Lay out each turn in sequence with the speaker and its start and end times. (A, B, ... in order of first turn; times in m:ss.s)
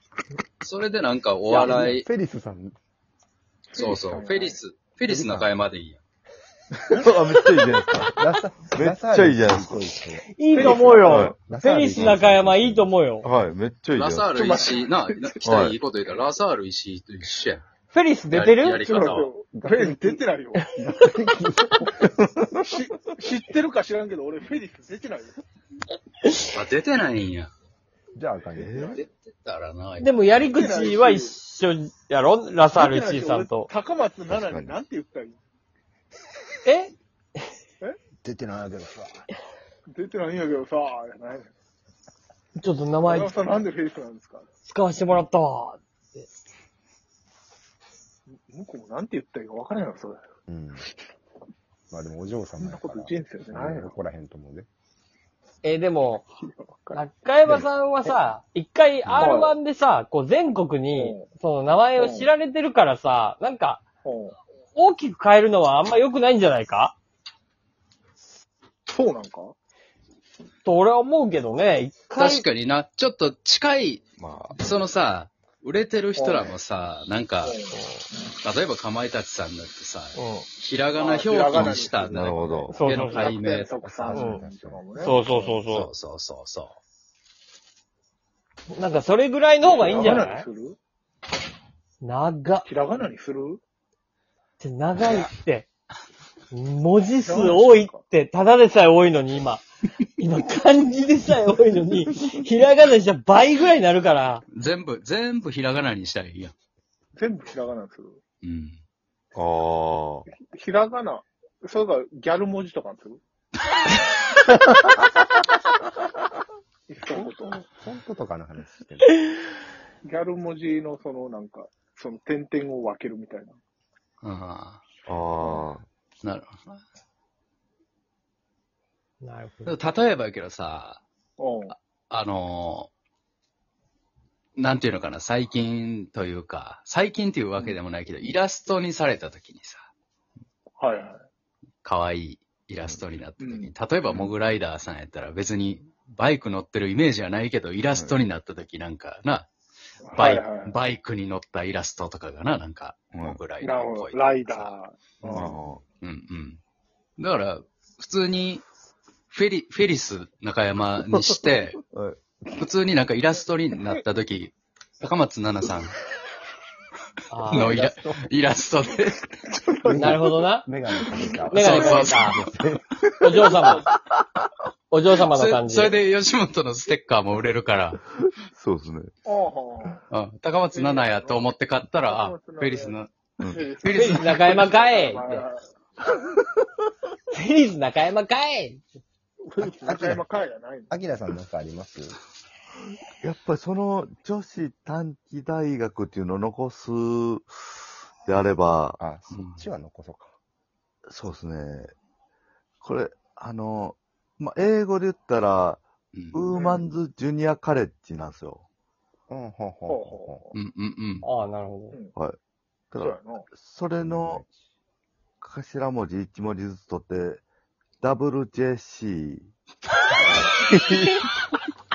0:00.6-0:02.0 A
0:01.5-0:02.7 B
0:03.7-0:04.6 C
0:03.7-0:06.0 A
0:05.0-0:05.5 B
0:06.9-0:08.1 D
0:08.1-0:10.2 B
0:08.7-0:09.9 D
0:10.3-0:13.2 E
0:10.5-0:11.3 C
0:10.6-0:11.4 D
0:11.3-0:12.9 B
0:13.2-0:14.3 D
0:13.9-0:17.6 A
0:14.3-0:15.4 C
0:15.4-0:15.8 D
0:17.9-0:18.8 E
0:18.3-0:19.3 A
0:18.6-0:20.7 C
0:19.5-0:20.2 B
0:20.7-0:22.1 B
0:22.0-0:22.5 D
0:22.6-0:25.4 C
0:26.5-0:27.5 A
0:28.1-0:29.0 B
0:28.5-0:29.0 D
0:28.9-0:30.2 A
0:30.0-0:33.7 E
0:30.5-0:31.3 C
0:32.7-0:35.4 C
0:34.3-0:34.8 D
0:36.6-0:36.9 E
0:38.2-0:39.2 B
0:39.9-0:41.5 C
0:42.6-0:43.6 E
0:43.0-0:44.5 C
0:44.6-0:46.3 E
0:48.3-0:50.2 C
0:50.5-0:50.9 B
0:51.9-0:54.7 B
0:52.6-0:54.0 C
0:55.6-0:56.2 E
0:56.4-0:57.0 C
0:56.9-1:03.8 E
0:59.2-0:59.6 C
1:01.0-1:01.2 C
1:02.0-1:02.3 C
1:04.0-1:04.4 C
1:04.7-1:07.0 E
1:08.9-1:09.5 C
1:10.6-1:12.4 E
1:12.2-1:14.0 A
1:14.2-1:14.6 D
1:14.6-1:17.6 A
1:16.2-1:16.6 C
1:17.4-1:17.8 C
1:17.7-1:18.1 E
1:18.4-1:23.7 A
1:20.2-1:20.5 E
1:20.9-1:22.3 C
1:21.5-1:23.0 D
1:22.7-1:23.3 E
1:22.8-1:25.6 C
1:23.8-1:24.8 B
1:24.1-1:24.4 E
1:25.0-1:25.9 E
1:25.7-1:26.8 A
1:28.7-1:30.4 E
1:29.6-1:30.8 C
1:32.0-1:32.7 E
1:32.6-1:33.6 C
1:34.6-1:35.7 E
1:36.5-1:39.6 E
1:37.2-1:38.0 C
1:40.2-1:44.4 E
1:44.5-1:46.5 A
1:47.2-1:48.2 C
1:48.4-1:48.8 A
1:49.3-1:50.2 D
1:50.3-1:53.2 C
1:56.9-1:57.6 C
1:57.1-1:59.1 B
2:00.0-2:03.6 C
2:04.2-2:04.8 A
2:05.0-2:05.8 D
2:05.4-2:05.7 C
2:06.2-2:06.8 A
2:09.2-2:09.8 E
2:09.6-2:11.0 A
2:11.4-2:11.7 C
2:11.7-2:12.9 A
2:14.6-2:19.9 A
2:20.8-2:21.2 C
2:21.8-2:29.5 A
2:23.4-2:24.3 C
2:27.9-2:28.2 D
2:30.0-2:30.8 C
2:30.1-2:34.7 A
2:33.1-2:33.4 D
2:33.6-2:35.6 C
2:35.2-2:35.8 D
2:36.0-2:36.6 A
2:37.2-2:38.6 A
2:39.3-2:41.8 A
2:41.1-2:42.2 D
2:42.5-2:46.0 A
2:47.3-2:47.8 E
2:47.5-2:49.3 A
2:47.5-2:48.3 B
2:49.7-2:50.3 C
2:49.8-2:53.5 B
2:49.9-2:50.7 E
2:51.4-2:52.4 E
2:51.5-2:52.5 A
2:53.2-2:53.9 E
2:54.9-2:56.0 E
2:55.2-2:58.0 A
2:58.4-2:59.1 D
2:59.2-3:00.0 C
3:00.1-3:03.1 A
3:00.7-3:01.5 C
3:02.0-3:03.0 C
3:03.4-3:03.6 D
3:03.5-3:05.7 C
3:03.8-3:04.6 A
3:03.9-3:05.4 E
3:07.3-3:08.8 E
3:09.4-3:11.0 C
3:09.6-3:10.2 B
3:10.9-3:12.2 B
3:13.2-3:19.0 D
3:19.0-3:20.3 B
3:19.3-3:19.6 A
3:21.0-3:21.9 D
3:22.8-3:28.6 D
3:26.1-3:26.4 A
3:26.5-3:26.9 C
3:29.3-3:30.4 B
3:29.9-3:30.6 C
3:30.5-3:31.3 A
3:31.2-3:32.0 E
3:32.9-3:34.4 D
3:33.0-3:33.5 C
3:34.0-3:34.6 B
3:35.4-3:37.4 D
3:38.0-3:39.5 D
3:40.5-3:41.2 D